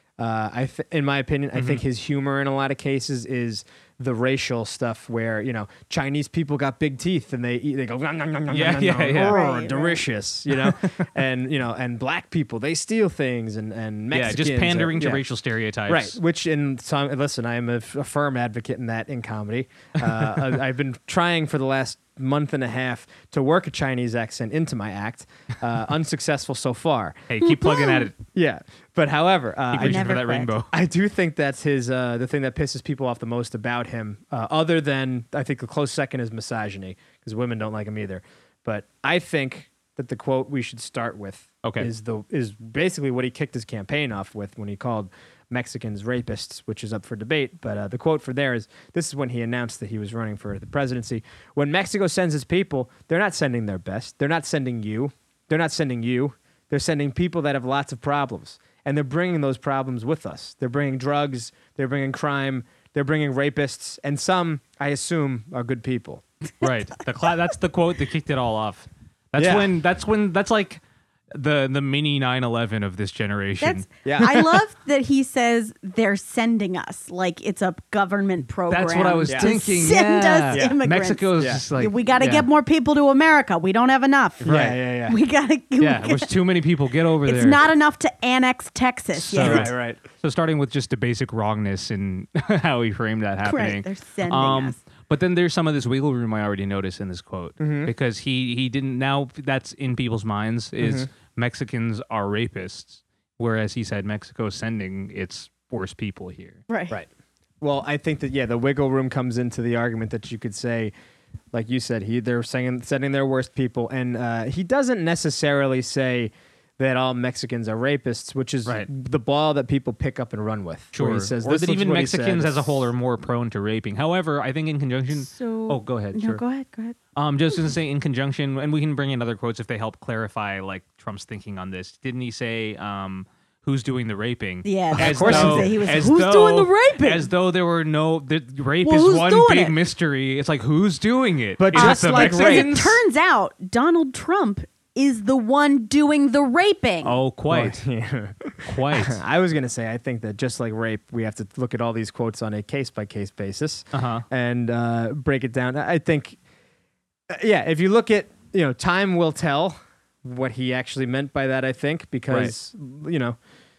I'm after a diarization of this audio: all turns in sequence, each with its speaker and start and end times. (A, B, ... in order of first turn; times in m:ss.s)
0:00.2-0:15.2 A
0:01.5-0:01.8 B
0:08.5-0:09.4 B
0:09.2-0:10.0 C
0:10.6-0:11.1 B
0:14.1-0:16.2 B
0:15.9-0:27.3 A
0:27.3-0:28.2 B
0:27.4-0:28.1 C
0:28.3-1:06.2 A
0:29.7-0:30.7 B
0:29.8-0:30.5 C
0:41.6-0:41.9 B
1:06.6-1:10.8 B
1:09.4-1:09.7 A
1:11.3-1:13.9 B
1:13.6-1:24.5 C
1:14.1-1:14.6 A
1:18.7-1:22.5 B
1:19.3-1:19.6 A
1:20.5-1:20.8 A
1:21.4-1:21.6 A
1:24.4-1:24.8 B
1:24.4-1:25.2 A
1:25.0-1:26.3 C
1:25.8-1:27.6 B
1:27.2-1:29.7 C
1:29.2-1:46.6 B
1:29.4-1:30.0 A
1:33.4-1:34.8 C
1:37.6-1:37.9 A
1:40.8-1:41.1 A
1:46.7-1:47.0 C
1:47.6-1:50.9 A
1:51.5-2:02.9 A
2:00.9-2:06.4 B
2:05.1-2:07.0 C
2:07.2-2:22.9 B
2:14.6-2:17.3 C
2:15.0-2:15.9 A
2:18.8-2:19.8 C
2:21.6-2:23.0 A
2:21.8-2:27.2 C
2:27.0-2:27.8 B
2:27.5-2:36.4 A
2:28.6-2:29.2 B
2:33.9-2:34.2 B
2:37.3-2:43.4 A